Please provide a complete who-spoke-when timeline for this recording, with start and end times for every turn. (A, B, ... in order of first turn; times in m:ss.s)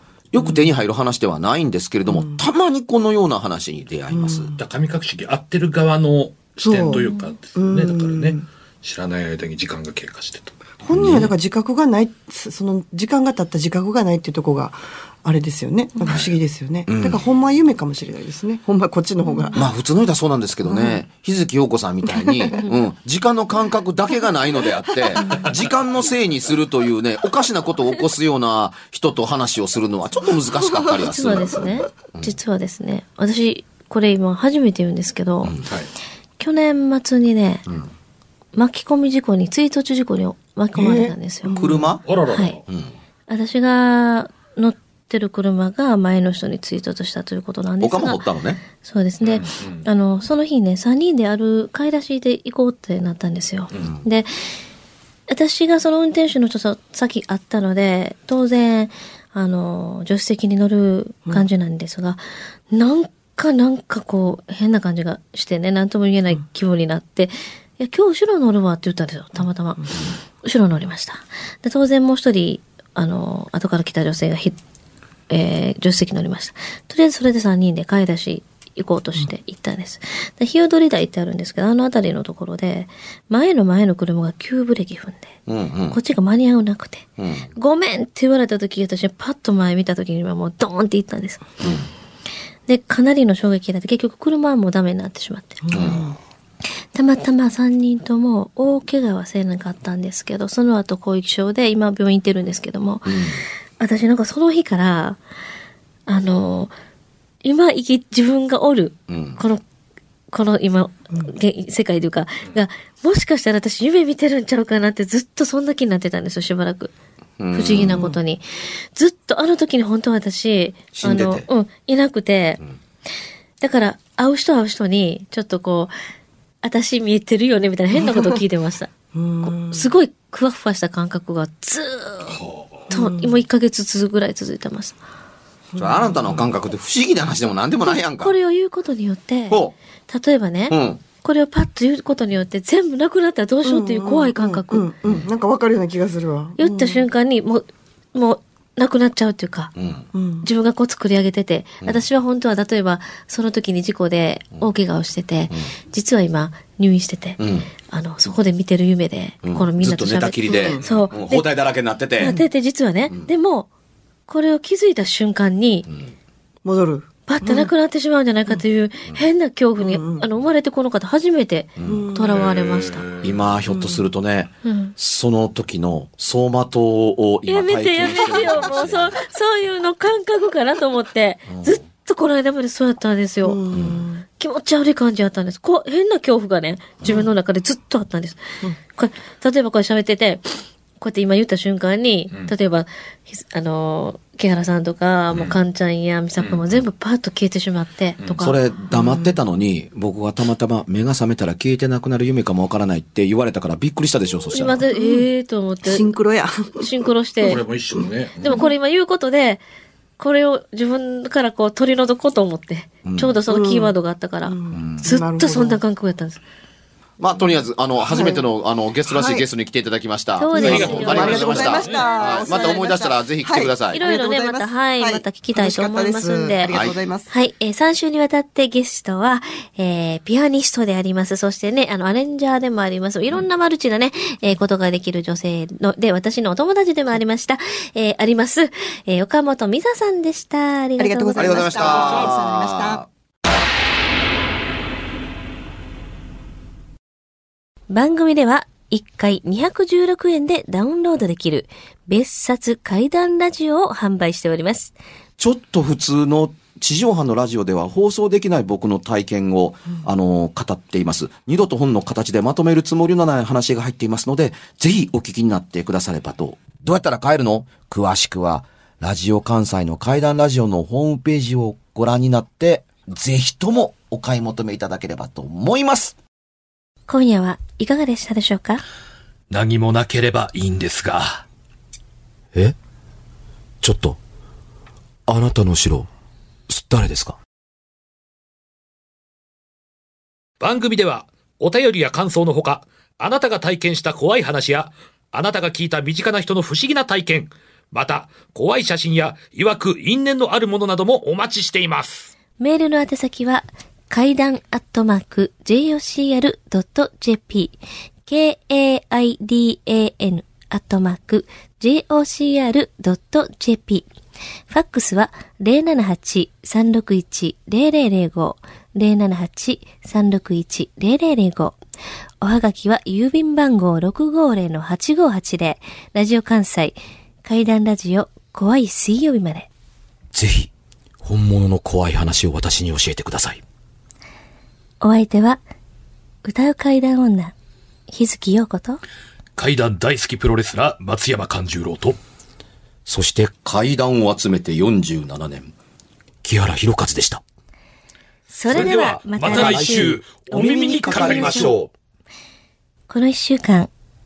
0:00.3-0:04.6 A
0:00.4-0:00.7 B
0:02.1-0:02.4 B
0:04.1-0:04.6 B
0:04.6-0:10.5 C
0:06.6-0:07.0 B
0:06.9-0:07.2 D
0:07.6-0:08.5 B
0:10.8-0:19.6 B
0:10.9-0:11.3 A
0:16.9-0:17.2 A
0:19.2-0:19.6 D
0:19.6-0:32.4 A
0:20.6-0:21.0 B
0:22.1-0:22.6 B
0:25.2-0:25.5 D
0:31.0-0:35.6 D
0:36.4-0:37.7 D
0:38.6-0:41.6 D
0:40.8-0:41.9 B
0:41.6-0:42.0 A
0:42.1-0:42.6 C
0:42.3-0:42.6 D
0:43.3-0:48.2 D
0:47.8-0:48.6 A
0:48.8-0:54.5 D
0:49.2-0:49.8 C
0:55.3-1:14.6 D
1:15.3-1:25.3 D
1:25.5-1:26.0 A
1:25.9-1:31.7 D
1:27.2-1:27.5 A
1:31.6-1:31.9 A
1:32.7-1:36.0 D
1:35.6-1:36.2 B
1:35.7-1:36.0 A
1:36.9-1:45.2 D
1:43.0-1:43.4 A
1:46.1-1:46.7 D
1:47.4-1:49.6 D
1:49.1-1:49.4 A
1:50.3-1:56.9 D
1:57.4-1:58.1 A
1:57.5-2:02.6 D
1:57.8-1:58.2 B
2:00.9-2:01.5 A
2:03.6-2:05.9 D
2:06.6-2:15.0 D
2:07.9-2:08.4 B
2:09.1-2:09.9 B
2:12.4-2:12.9 C
2:12.9-2:13.4 B
2:15.7-2:16.4 B
2:15.8-2:18.4 A
2:18.2-2:24.9 D
2:19.5-2:19.7 A
2:20.7-2:21.0 A
2:23.6-2:27.1 B
2:26.6-2:29.7 D
2:29.8-2:30.0 A
2:30.1-2:30.5 B
2:30.4-2:41.5 D
2:37.4-2:37.7 A
2:39.4-2:42.4 A
2:40.5-2:40.9 B
2:42.2-2:43.7 D
2:44.3-2:45.9 D
2:46.6-2:47.7 B
2:47.3-2:53.1 D
2:49.8-2:50.3 B
2:51.8-2:52.1 A
2:51.9-2:52.5 B
2:52.3-2:53.3 C
2:53.2-2:59.2 A
2:53.7-2:54.0 B
2:54.6-2:55.0 D
2:57.5-3:03.6 D
3:01.5-3:01.8 A
3:03.4-3:04.2 B
3:03.7-3:04.0 A
3:04.3-3:10.4 D
3:11.0-3:18.6 D
3:16.4-3:16.8 C
3:18.2-3:18.5 C
3:18.4-3:24.8 A
3:18.9-3:19.3 B
3:24.5-3:26.1 D
3:24.9-3:25.3 B
3:25.8-3:26.9 B
3:26.8-3:27.6 D
3:27.4-3:28.7 C
3:27.4-3:28.7 B
3:28.4-3:29.6 D
3:30.2-3:36.4 D
3:33.0-3:33.3 A
3:33.5-3:33.9 B
3:34.5-3:35.8 B
3:34.7-3:35.0 A
3:37.2-3:44.0 A
3:38.1-3:38.4 B
3:39.1-3:39.4 B
3:40.4-3:41.8 D
3:40.6-3:42.3 C
3:40.6-3:47.3 B
3:43.9-3:46.7 D
3:46.7-3:47.0 A
3:47.3-4:02.3 D
4:01.0-4:03.0 B
4:01.4-4:03.1 A
4:07.9-4:15.0 D
4:15.4-4:36.2 A
4:37.1-4:38.8 D
4:39.5-4:41.4 C
4:43.8-4:44.2 A
4:45.3-4:46.1 A
4:46.7-4:47.4 A
4:50.6-5:02.3 C
5:02.6-5:14.1 D
5:14.7-5:21.8 D
5:22.4-5:29.7 D
5:30.3-5:30.7 A
5:31.2-5:33.6 A
5:35.0-5:35.6 D
5:36.4-5:37.5 D
5:38.1-5:39.0 D
5:39.6-5:42.2 C
5:43.1-5:45.7 A
5:46.4-5:47.4 A
5:48.5-5:51.7 D
5:48.7-5:51.9 C
5:48.7-5:51.8 A
5:53.1-5:53.9 D